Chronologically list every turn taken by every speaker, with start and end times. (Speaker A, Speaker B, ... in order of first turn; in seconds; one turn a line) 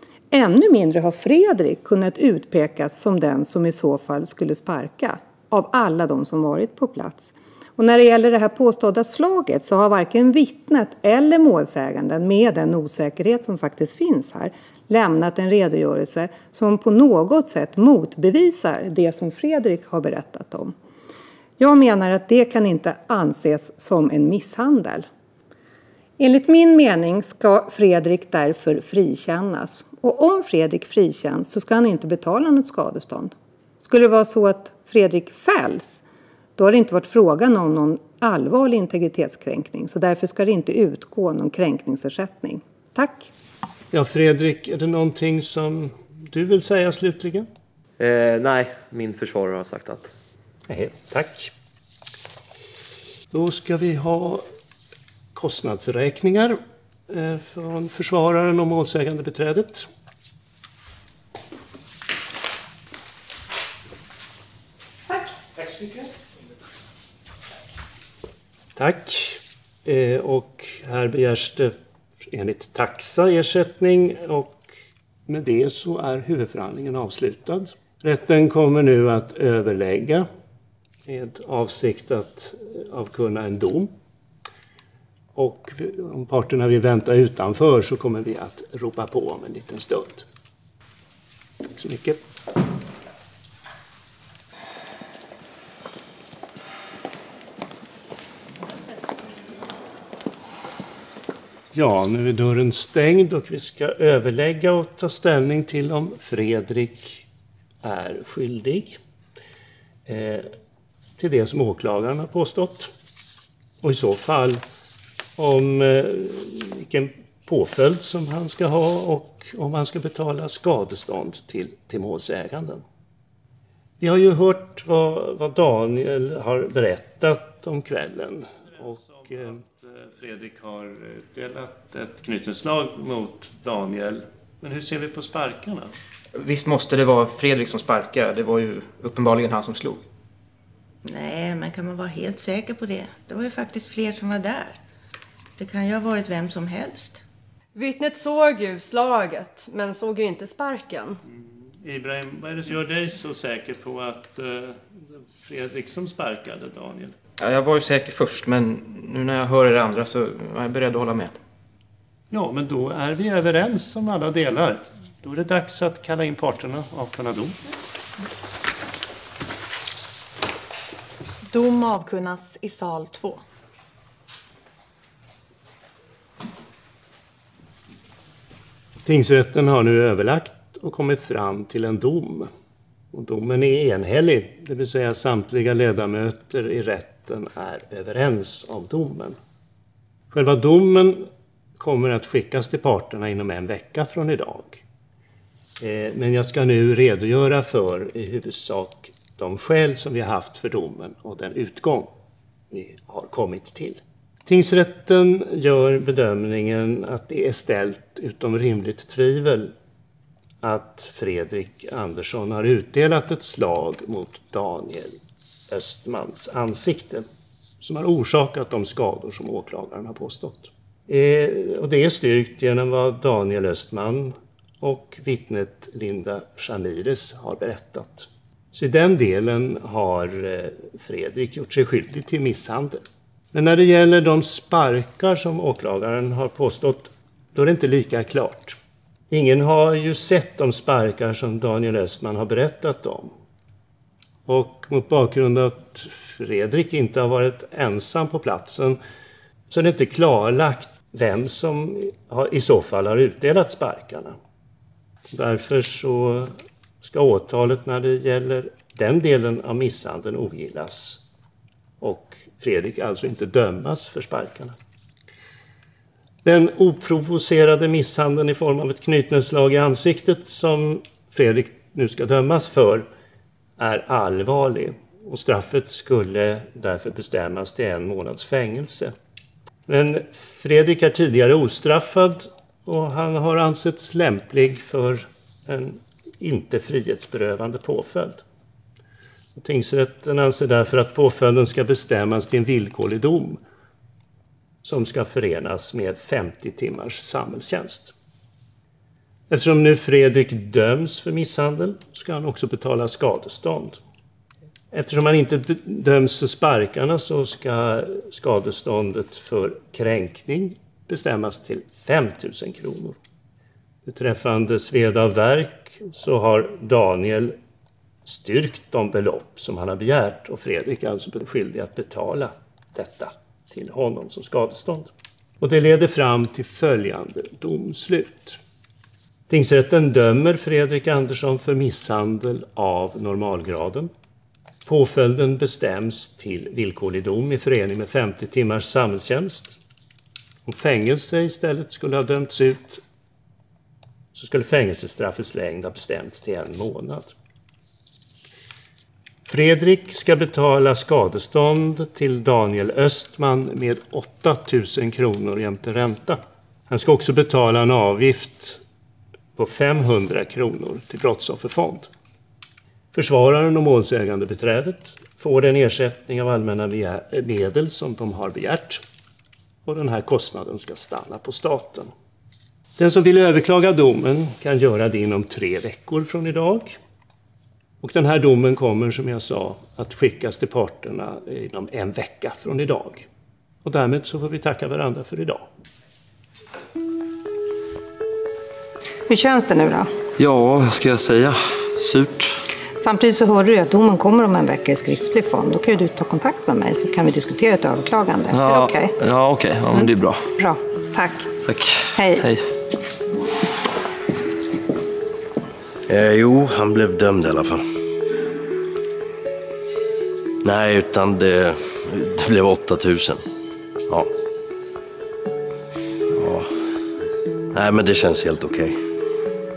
Speaker A: 0.3-20.7
Speaker A: 21.6-25.1
Speaker A: 26.2-36.0
Speaker A: 36.6-43.3
Speaker B: 43.9-47.5
Speaker C: 48.0-50.1
Speaker B: 50.7-51.5
Speaker B: 53.3-54.4
Speaker B: 55.3-59.9
Speaker B: 68.8-71.7
Speaker B: 72.3-74.7
Speaker B: 75.3-80.3
Speaker B: 81.0-83.9
Speaker B: 85.3-90.2
Speaker B: 91.7-92.2
Speaker B: 101.7-107.2
Speaker B: 107.8-109.0
Speaker B: 110.0-110.5
Speaker B: 111.2-112.9
Speaker B: 113.8-114.6
Speaker B: 115.4-122.8
Speaker B: 124.0-135.9
Speaker D: 136.3-140.1
Speaker E: 141.0-144.8
Speaker E: 145.6-147.2
Speaker F: 147.7-151.2
Speaker B: 151.4-157.1
Speaker D: 157.4-161.3
Speaker B: 162.3-167.6
Speaker G: 171.5-173.4
Speaker B: 179.1-182.5
Speaker B: 183.1-189.4
Speaker B: 190.3-194.8
Speaker B: 195.8-202.1
Speaker B: 202.7-209.7
Speaker B: 210.6-215.2
Speaker B: 215.7-217.2
Speaker B: 217.8-238.8
Speaker B: 239.3-243.3
Speaker B: 244.4-249.0
Speaker B: 249.7-254.4
Speaker B: 255.3-261.2
Speaker B: 262.0-264.8
Speaker B: 266.4-273.1
Speaker B: 273.8-279.1
Speaker B: 279.9-288.4
Speaker B: 289.5-293.6
Speaker B: 294.8-298.1
Speaker B: 299.5-304.0
Speaker B: 304.9-313.2
Speaker B: 314.1-317.6
Speaker B: 318.2-328.6
Speaker B: 329.5-334.1
Speaker B: 334.8-339.8
Speaker B: 340.6-343.0
Speaker B: 344.3-347.3
Speaker B: 349.4-358.8
Speaker B: 359.6-362.1
Speaker B: 363.1-369.0
Speaker B: 369.8-372.1
Speaker B: 373.0-377.0
Speaker B: 378.0-383.3
Speaker B: 383.8-385.6
Speaker A: 389.3-390.1
Speaker C: 390.4-392.6
Speaker A: 393.0-399.1
Speaker C: 398.5-400.4
Speaker A: 400.6-401.5
Speaker C: 401.6-402.6
Speaker A: 402.1-402.5
Speaker H: 406.1-407.8
Speaker H: 410.6-413.4
Speaker H: 416.3-417.0
Speaker H: 417.7-419.0